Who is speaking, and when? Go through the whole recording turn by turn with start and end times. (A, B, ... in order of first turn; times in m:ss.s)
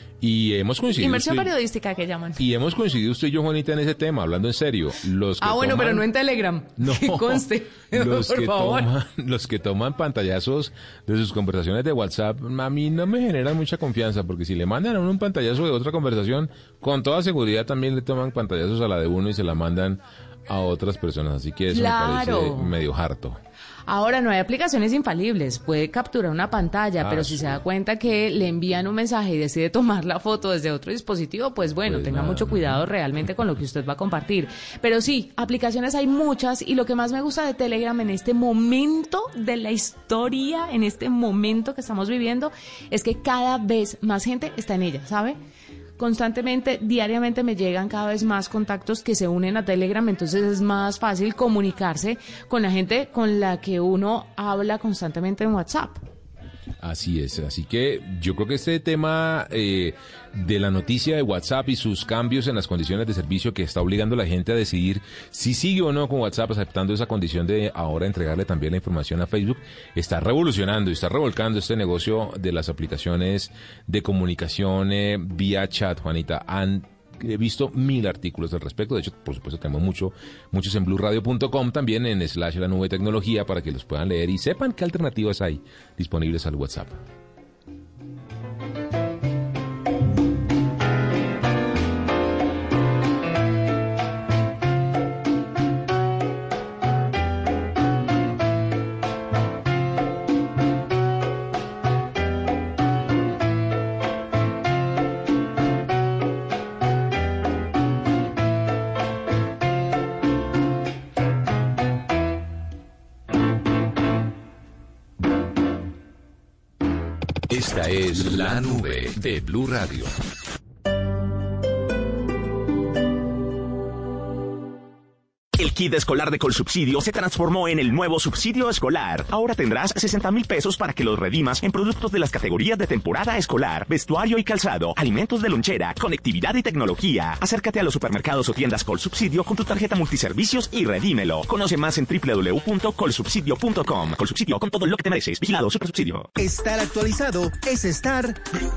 0:00.2-0:01.5 A
0:01.0-0:02.4 B
0:02.4-0:06.1 A
0:05.4-0:08.9 B
0:06.8-0:23.4 A
0:21.7-0:22.8 B
0:23.9-0:45.4 B
0:27.0-0:27.6 A
0:31.8-0:32.8 A
0:46.0-0:56.0 B
0:56.8-1:27.0 A
1:57.5-2:00.1 C
2:05.6-2:26.3 D
2:26.4-2:28.4 E